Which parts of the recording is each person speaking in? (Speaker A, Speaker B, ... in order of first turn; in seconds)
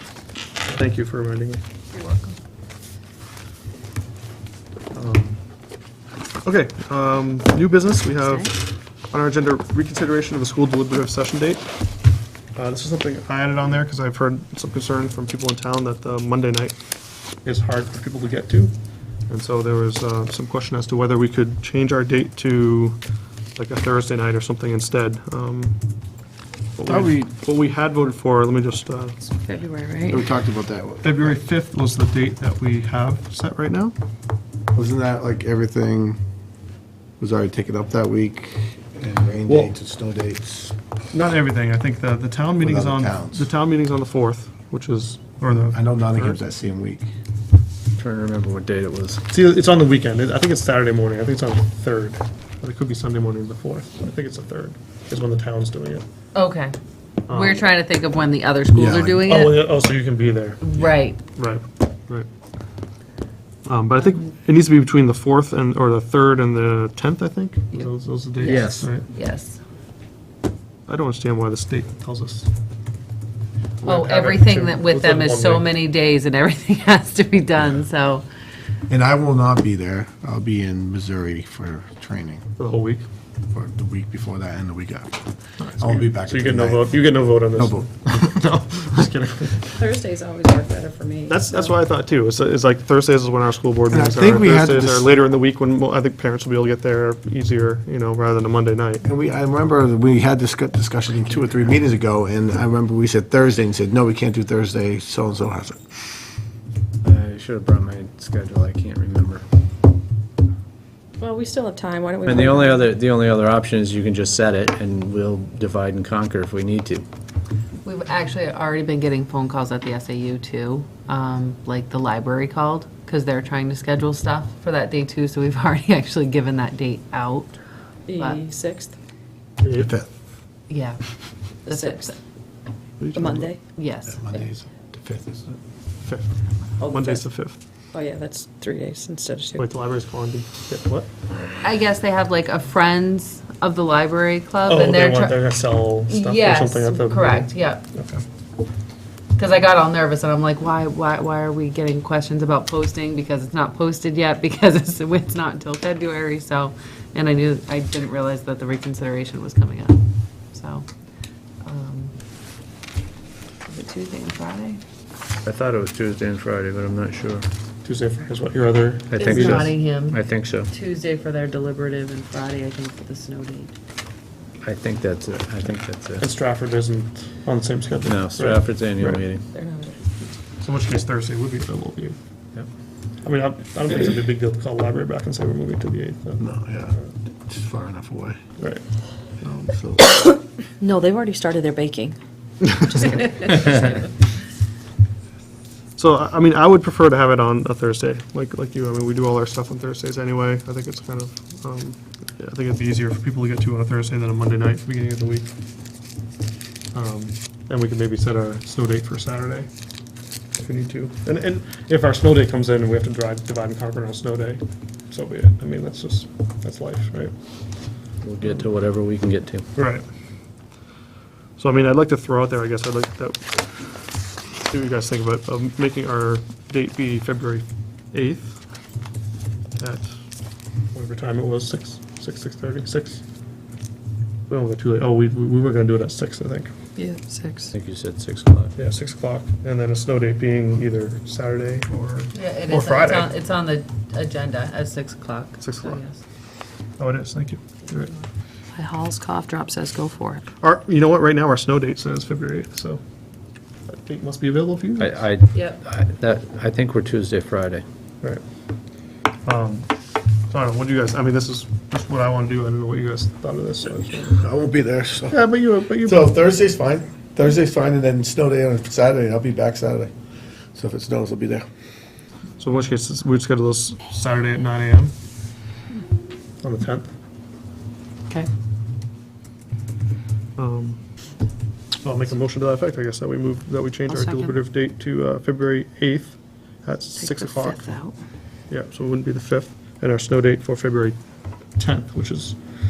Speaker A: 0.7-1.6, 4.9-5.4, 6.4-8.6, 9.1-11.7, 12.6-16.8, 17.4-18.7, 19.3-23.0, 23.6-25.8, 26.8-29.3, 31.0-34.0, 39.5-39.7, 41.1-46.4, 49.3-56.0, 57.3-57.7, 59.3-60.8, 61.4-62.3, 63.7-69.1, 70.9-72.5, 73.8-75.8, 82.6-83.0, 85.6-89.8, 91.3-99.0, 133.0-133.5, 136.0-137.6, 139.6-141.1, 144.7-148.2, 167.8-169.7, 176.2-179.2, 180.6-182.2, 183.2-186.5, 188.6-188.8, 196.0-205.5, 206.9-209.7, 210.6-217.3, 219.8-220.1, 221.6-223.6, 224.6-228.6, 229.8-230.1, 230.9-233.2, 234.5-236.7, 238.8-243.3, 245.6-246.0, 247.0-248.1, 250.6-253.0, 253.9-255.2, 259.4-259.9, 260.5-264.3, 265.3-266.4, 272.6-275.1, 276.6-277.1, 280.6-281.0, 282.0-288.0, 288.7-291.2, 291.8-292.6
Speaker B: 1.9-2.4, 56.3-56.8, 57.3-59.6, 60.6-61.2, 67.7-69.6, 73.8-78.2, 117.8-127.6, 128.1-128.4, 130.7-132.2, 133.8-134.5, 141.6-145.4, 146.1-147.9, 149.4-160.9, 161.6-162.1, 163.7-164.8, 169.2-173.8, 242.3-246.2, 247.9-248.3, 255.5-255.8
Speaker C: 26.9-27.2, 48.0-49.2, 68.4-68.9, 107.0-109.4, 112.2-117.1, 165.4-167.5, 169.1-170.7, 174.6-176.3, 178.0-179.4, 218.2-219.7, 237.7-238.7, 255.0-257.8
Speaker D: 29.5-30.2, 89.8-91.8, 111.2-112.9, 128.1-129.0, 131.7-132.1, 133.1-133.6, 136.8-137.2, 137.9-139.7, 179.6-179.9, 190.8-192.2, 192.9-193.9, 237.0-237.7, 248.7-250.5, 284.1-284.6, 287.2-288.2
Speaker E: 30.1-31.4, 34.7-36.2, 37.2-40.8, 42.6-43.5, 45.7-47.1, 58.7-59.2, 78.9-82.5, 83.5-88.4, 93.9-95.1, 99.0-106.1, 129.6-130.1, 134.1-135.5, 186.4-188.4, 189.4-190.1, 264.2-265.4, 266.0-270.1, 270.7-271.7